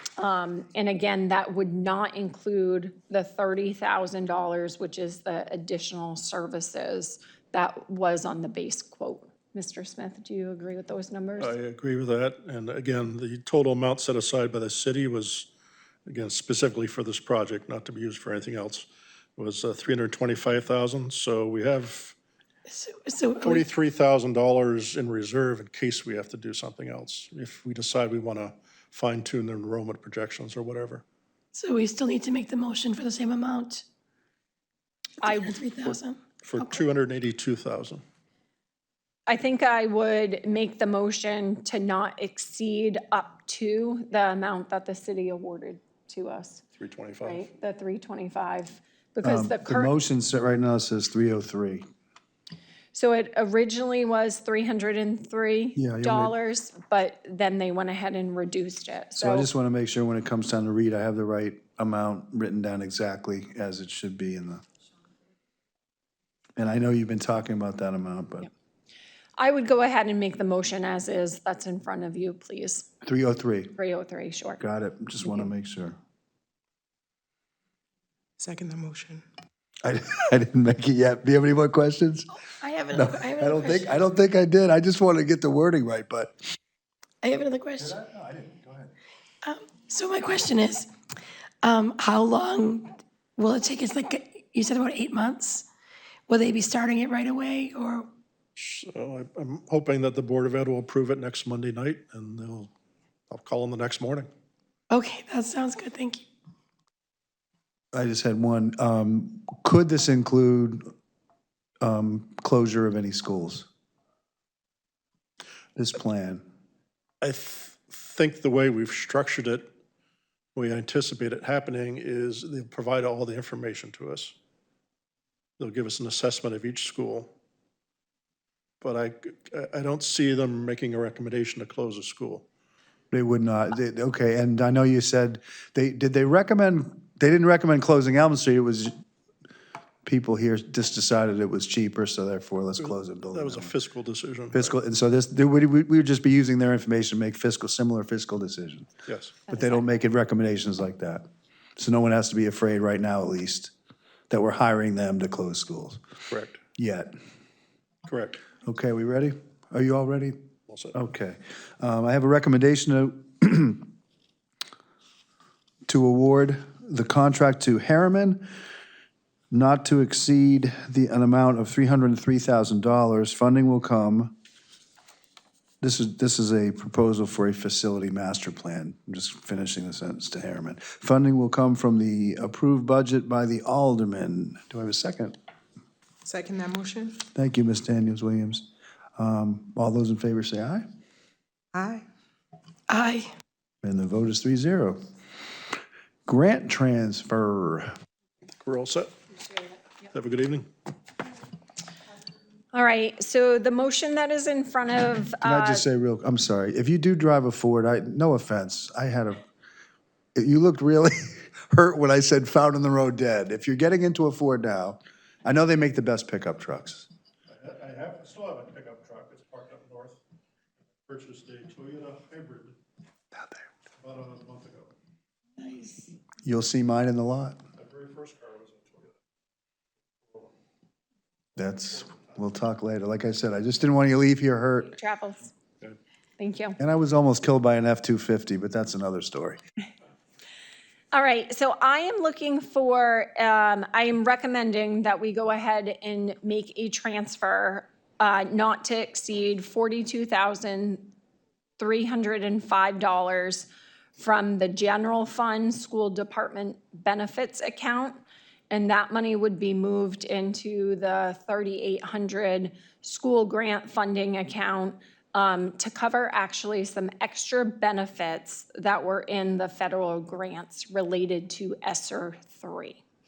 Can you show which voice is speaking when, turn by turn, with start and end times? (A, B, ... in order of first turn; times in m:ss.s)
0:00.2-0:11.6 A
0:11.4-0:15.5 B
0:16.1-0:18.9 B
0:19.4-0:22.2 B
0:22.7-0:23.7 C
0:23.4-0:31.0 B
0:31.5-0:33.8 C
0:35.2-0:36.7 C
0:35.2-0:35.6 A
0:35.8-0:38.0 B
0:39.3-0:46.6 A
0:46.8-0:47.5 B
0:47.2-0:49.9 A
0:49.2-0:51.8 D
0:52.9-0:59.5 A
0:55.8-0:56.3 D
0:59.2-1:04.6 D
1:06.6-1:08.5 D
1:09.4-1:12.9 A
1:13.0-1:13.8 D
1:13.8-1:14.6 A
1:14.6-1:16.0 D
1:18.4-1:19.2 E
1:19.8-1:22.3 D
1:22.6-1:23.9 C
1:22.9-1:26.4 D
1:27.2-1:28.0 C
1:27.8-1:28.9 D
1:29.4-1:30.9 C
1:31.6-1:35.7 C
1:36.3-1:38.1 C
1:38.6-1:42.7 B
1:43.3-1:44.3 B
1:44.9-1:46.3 C
1:47.9-1:50.8 D
1:51.8-1:53.7 D
1:55.8-1:56.4 D
1:57.2-1:59.7 B
2:00.6-2:04.4 B
2:05.6-2:07.3 B
2:08.8-2:12.5 B
2:13.1-2:18.9 D
2:20.0-2:23.7 D
2:22.8-2:24.8 B
2:24.5-2:28.9 D
2:29.1-2:29.4 B
2:29.5-2:31.2 D
2:31.8-2:33.7 D
2:34.3-2:36.0 D
2:36.3-2:36.6 B
2:36.8-2:37.1 D
2:38.1-2:38.4 B
2:38.6-2:40.4 D
2:40.7-2:41.0 B
2:40.9-2:43.9 D
2:45.9-2:48.5 D
2:49.5-2:54.3 D
2:55.8-3:05.4 D
3:06.2-3:07.2 E
3:07.4-3:10.8 D
3:11.7-3:12.0 E
3:12.9-3:13.3 C
3:13.8-3:15.0 D
3:16.3-3:17.9 D
3:18.6-3:19.1 B
3:20.0-3:20.7 B
3:22.7-3:25.9 A
3:25.4-3:29.4 D
3:30.4-3:37.1 D
3:37.5-3:40.2 B
3:41.0-3:42.8 B
3:44.0-3:44.9 B
3:46.4-3:47.6 D
3:47.8-3:49.1 B
3:51.6-3:55.0 D
3:54.9-3:55.5 A
3:56.4-3:56.8 A
3:56.8-3:59.6 D
4:01.1-4:11.1 A
4:11.8-4:18.2 A
4:18.7-4:33.0 A